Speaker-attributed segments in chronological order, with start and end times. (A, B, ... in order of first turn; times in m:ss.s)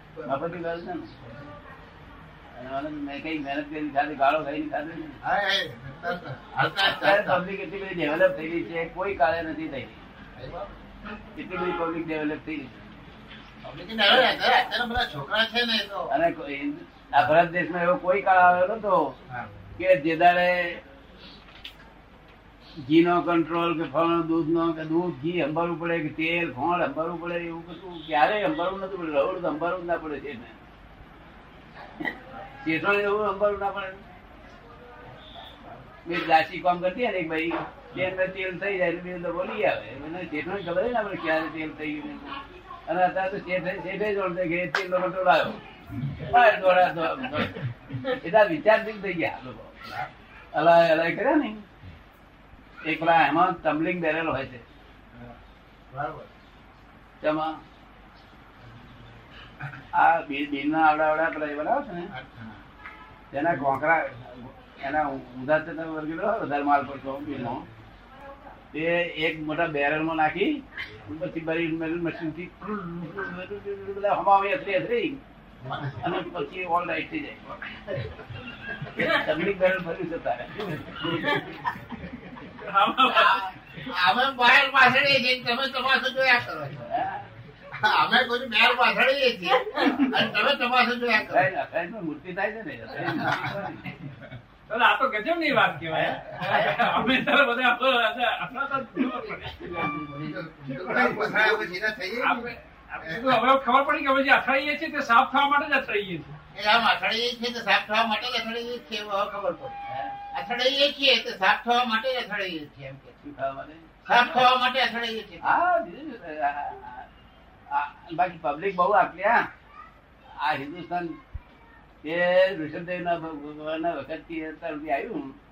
0:00.2-0:01.1 A
0:02.6-0:05.2 A
0:05.2-0:07.4 B
0:06.8-0:10.0 A
0:10.4-0:10.8 B
0:11.4-0:12.8 A
0:13.6-0:16.1 B
0:16.1-0:19.1 A
0:19.8-0:20.8 A
0:22.9-0:30.6 A
0:32.6-0:34.0 A
0:36.0-0:45.6 A
0:46.3-0:49.8 A
0:50.5-0:51.6 A
0:52.8-0:54.6 A
0:55.9-0:56.3 B
0:57.2-0:57.6 A
0:59.9-1:02.1 A
1:02.1-1:02.6 B
1:03.3-1:07.6 A
1:08.7-1:15.2 A
1:15.7-1:15.9 B
1:16.0-1:17.5 A
1:18.9-1:21.4 A
1:22.6-1:23.4 C
1:23.8-1:26.9 B
1:26.9-1:27.2 A
1:27.7-1:31.5 B
1:31.3-1:33.9 A
1:33.1-1:33.4 B
1:34.7-1:39.9 C
1:35.9-1:36.8 A
1:39.6-1:41.3 A
1:40.2-1:42.5 B
1:41.1-1:41.6 C
1:42.2-1:46.4 C
1:43.0-1:43.4 B
1:46.5-1:49.8 B
1:49.9-1:50.2 A
1:50.3-1:53.2 B
1:53.2-1:54.4 A
1:54.0-1:55.6 B
1:55.4-1:57.1 A
1:57.7-1:59.4 A
2:00.4-2:01.2 A
2:02.0-2:05.4 A